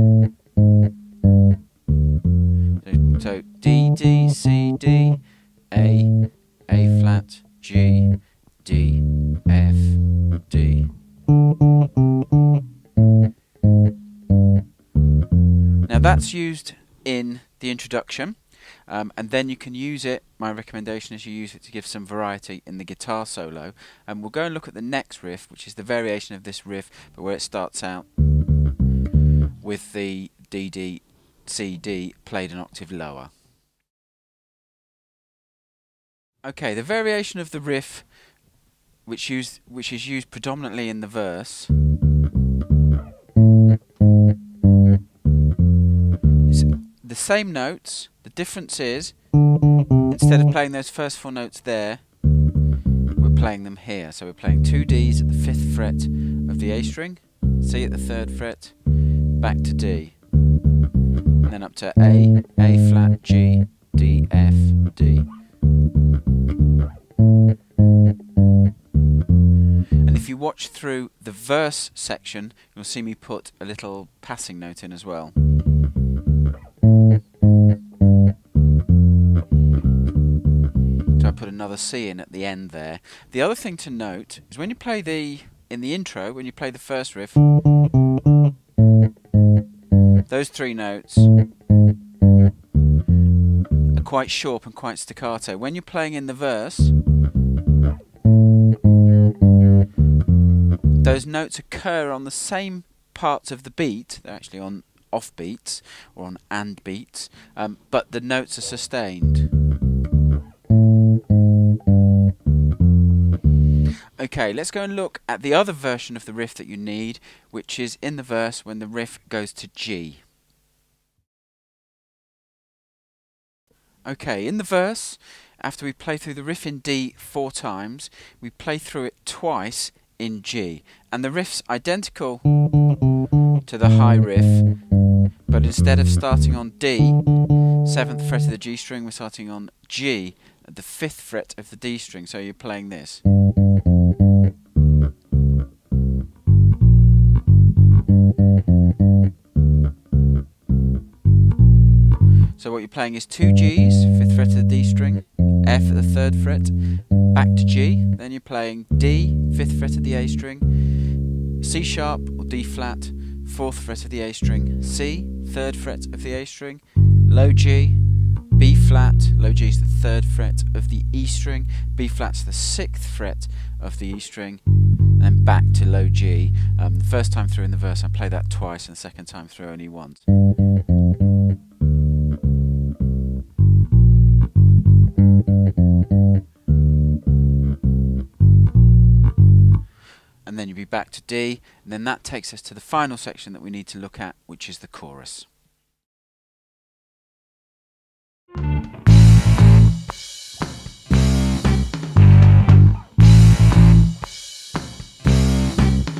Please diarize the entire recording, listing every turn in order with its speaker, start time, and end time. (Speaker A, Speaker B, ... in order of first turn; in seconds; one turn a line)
Speaker A: 2.8-10.9
Speaker A: 15.8-28.1
Speaker A: 29.6-33.3
Speaker A: 36.4-38.2
Speaker A: 39.0-41.7
Speaker A: 46.5-49.3
Speaker A: 50.1-52.1
Speaker A: 53.2-60.2
Speaker A: 61.4-65.3
Speaker A: 70.0-75.3
Speaker A: 81.2-87.4
Speaker A: 90.3-91.3
Speaker A: 93.9-97.0
Speaker A: 101.0-109.5
Speaker A: 114.2-120.2
Speaker A: 124.0-132.5
Speaker A: 133.6-134.9
Speaker A: 135.5-143.2
Speaker A: 152.6-168.0
Speaker A: 168.5-174.6
Speaker A: 175.2-180.2
Speaker A: 190.4-195.5